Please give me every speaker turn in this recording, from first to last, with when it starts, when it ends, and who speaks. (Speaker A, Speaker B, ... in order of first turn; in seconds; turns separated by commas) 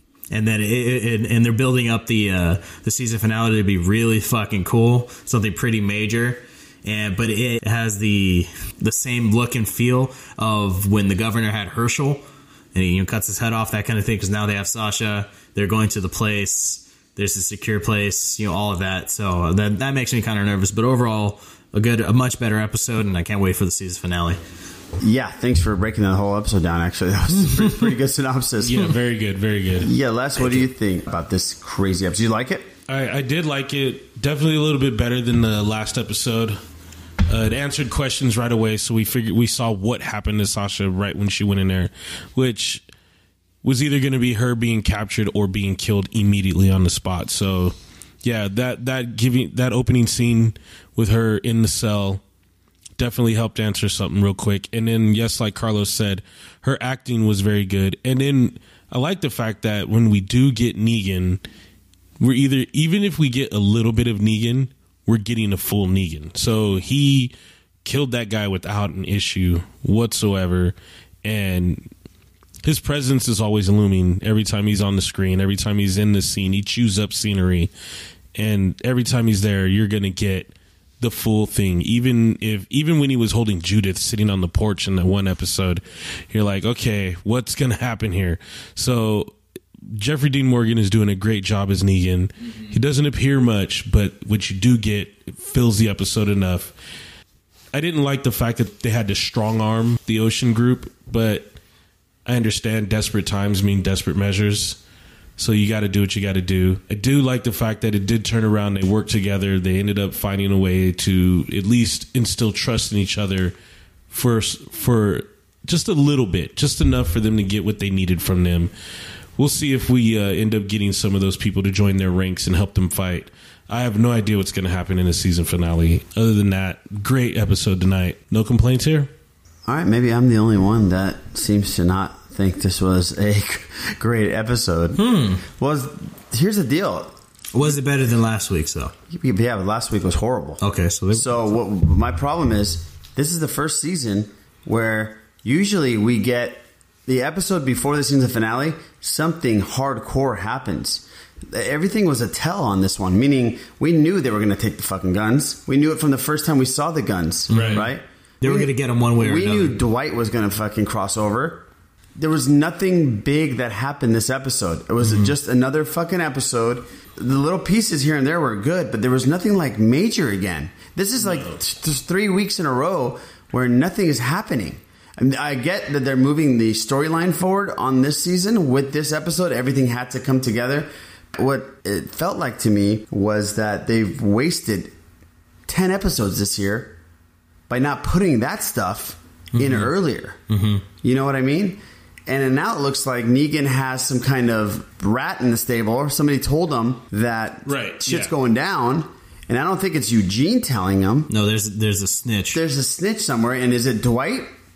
Speaker A: 0.3-24.4, Speaker B: 25.0-29.0, Speaker C: 28.6-29.9, Speaker B: 29.8-32.7, Speaker C: 32.9-36.6, Speaker C: 37.3-42.8, Speaker C: 43.6-52.2, Speaker C: 53.0-61.4, Speaker C: 62.2-67.3, Speaker C: 67.8-71.9, Speaker C: 72.6-77.7, Speaker C: 78.3-89.3, Speaker C: 89.9-96.7, Speaker C: 97.7-101.5, Speaker C: 102.2-104.8, Speaker C: 105.4-113.5, Speaker C: 114.1-118.7, Speaker C: 119.4-129.1, Speaker B: 129.7-137.1, Speaker A: 135.0-135.4, Speaker A: 137.5-138.9, Speaker B: 139.1-184.9, Speaker A: 140.6-141.3, Speaker A: 157.5-157.9, Speaker C: 157.5-157.8, Speaker A: 158.4-159.8, Speaker A: 165.0-165.3, Speaker C: 171.2-171.6, Speaker B: 185.7-186.9, Speaker B: 187.7-190.4, Speaker A: 189.5-189.9, Speaker A: 190.5-190.8, Speaker B: 191.0-201.3, Speaker C: 197.7-198.3, Speaker A: 201.3-202.6, Speaker B: 202.5-204.5